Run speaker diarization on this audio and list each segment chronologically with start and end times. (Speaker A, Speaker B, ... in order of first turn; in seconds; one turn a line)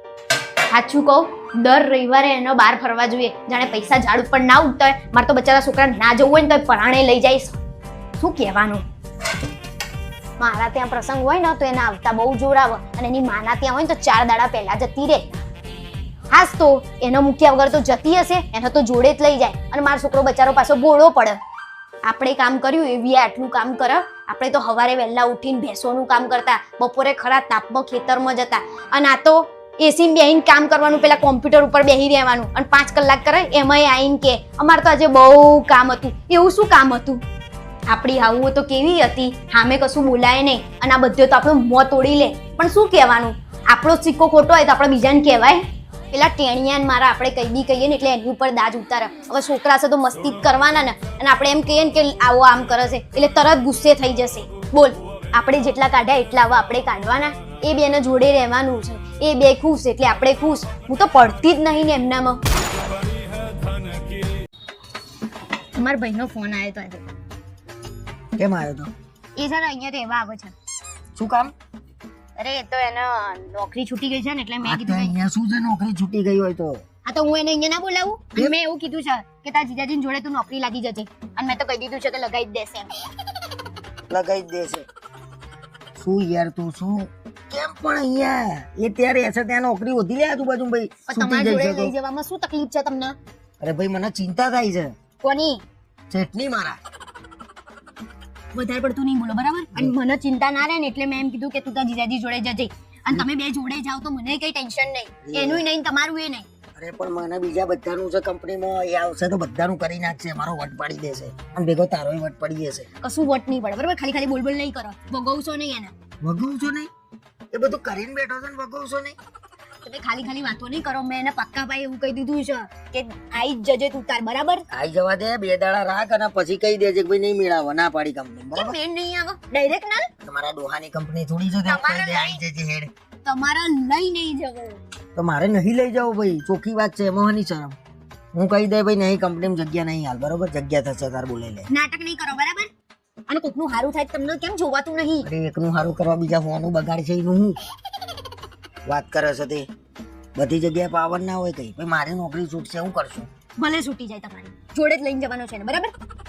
Speaker A: 0.7-7.6
Speaker A: 8.2-8.8
Speaker A: 10.4-15.4
Speaker A: 16.3-21.4
Speaker A: 22.1-37.2
Speaker A: 37.9-62.4
Speaker A: 65.7-67.1
Speaker B: 68.4-68.9
Speaker A: 69.4-70.5
Speaker B: 71.2-71.5
Speaker A: 72.4-75.1
Speaker B: 74.6-76.8
Speaker A: 77.1-83.0
Speaker B: 84.1-84.8
Speaker B: 86.0-91.9
Speaker A: 91.1-93.2
Speaker B: 93.6-94.9
Speaker A: 95.2-95.6
Speaker B: 96.1-96.8
Speaker A: 98.5-106.5
Speaker B: 105.2-105.7
Speaker B: 106.8-112.9
Speaker A: 113.0-115.9
Speaker B: 116.2-116.9
Speaker B: 117.5-119.2
Speaker A: 119.8-124.7
Speaker B: 124.7-128.8
Speaker A: 128.6-130.1
Speaker B: 130.2-132.9
Speaker A: 131.7-132.4
Speaker A: 133.2-134.8
Speaker B: 135.2-137.8
Speaker B: 138.3-141.7
Speaker A: 141.7-142.7
Speaker A: 143.3-145.3
Speaker B: 145.2-147.6
Speaker B: 148.9-149.7
Speaker B: 150.3-153.3
Speaker A: 153.6-155.9